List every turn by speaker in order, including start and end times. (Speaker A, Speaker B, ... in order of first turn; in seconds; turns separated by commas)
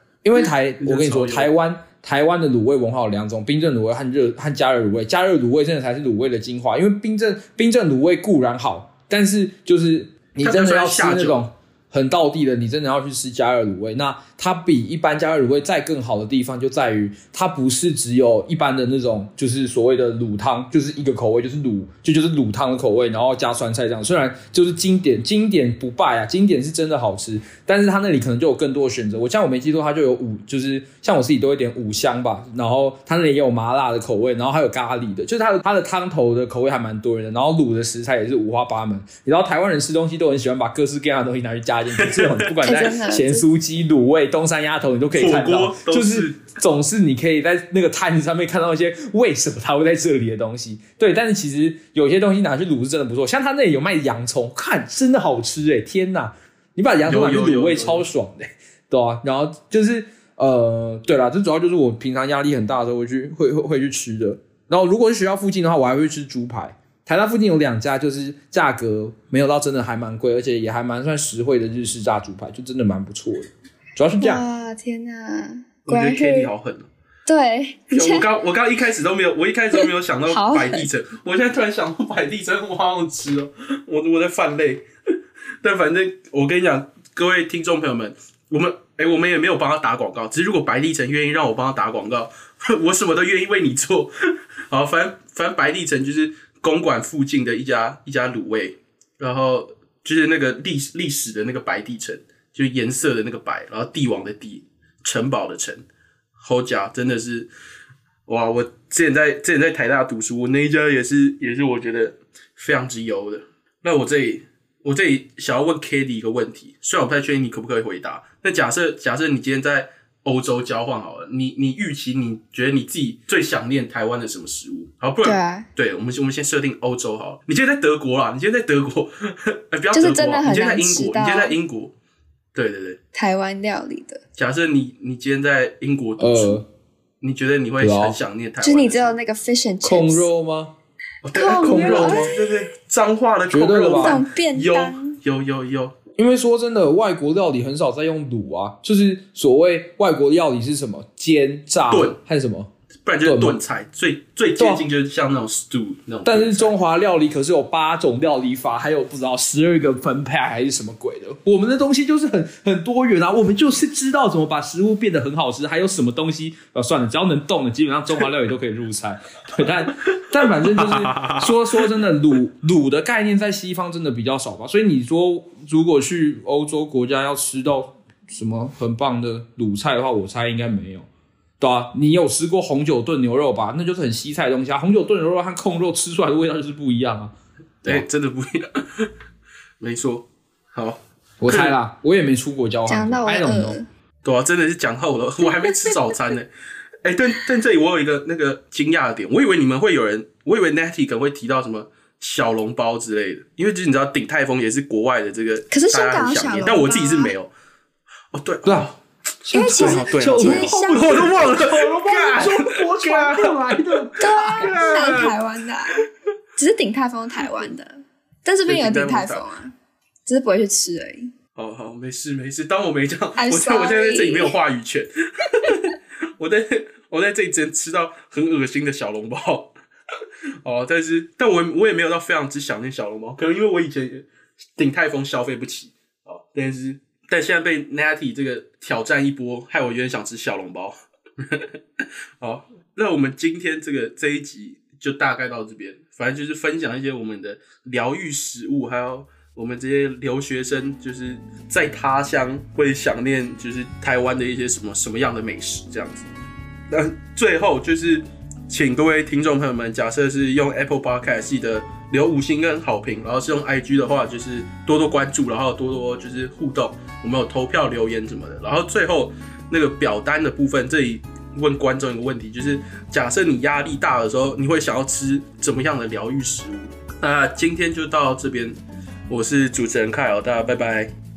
Speaker A: 0.2-74.4, Speaker B: 0.8-1.5, Speaker B: 10.4-11.4, Speaker B: 42.0-42.5, Speaker C: 42.6-43.4, Speaker B: 45.1-46.6, Speaker B: 57.0-58.1, Speaker C: 74.2-76.5, Speaker B: 75.8-76.9, Speaker C: 77.3-78.2, Speaker B: 77.9-84.8, Speaker C: 79.7-80.9, Speaker B: 85.6-94.1, Speaker B: 94.7-105.8, Speaker B: 106.4-107.5, Speaker B: 108.3-131.9, Speaker C: 125.2-125.7, Speaker C: 129.9-131.6, Speaker B: 132.5-133.0, Speaker C: 133.1-134.2, Speaker B: 134.3-136.6, Speaker A: 136.2-136.7, Speaker B: 137.2-139.2, Speaker A: 137.8-138.2, Speaker C: 138.6-140.3, Speaker A: 139.8-140.7, Speaker B: 141.2-146.0, Speaker C: 141.3-142.3, Speaker A: 141.5-142.3, Speaker A: 143.5-144.2, Speaker C: 143.9-145.2, Speaker A: 146.2-152.7, Speaker B: 151.9-152.2, Speaker B: 153.0-156.8, Speaker A: 153.2-153.6, Speaker A: 156.2-181.1, Speaker B: 170.6-171.6, Speaker A: 181.6-187.3, Speaker B: 187.8-189.1, Speaker B: 189.8-191.8, Speaker A: 191.4-193.8, Speaker C: 192.9-193.9, Speaker B: 194.2-196.5, Speaker C: 195.5-196.0, Speaker B: 197.0-207.5, Speaker C: 205.7-207.3, Speaker B: 208.3-209.0, Speaker A: 208.6-208.9, Speaker A: 209.4-215.3, Speaker B: 209.5-215.3, Speaker C: 209.5-211.6, Speaker C: 214.2-215.9, Speaker C: 216.6-219.7, Speaker B: 218.7-219.4, Speaker C: 220.2-221.3, Speaker B: 221.5-229.7, Speaker C: 223.4-224.6, Speaker B: 230.6-234.2, Speaker B: 234.8-256.3, Speaker B: 256.9-278.8, Speaker B: 279.3-281.1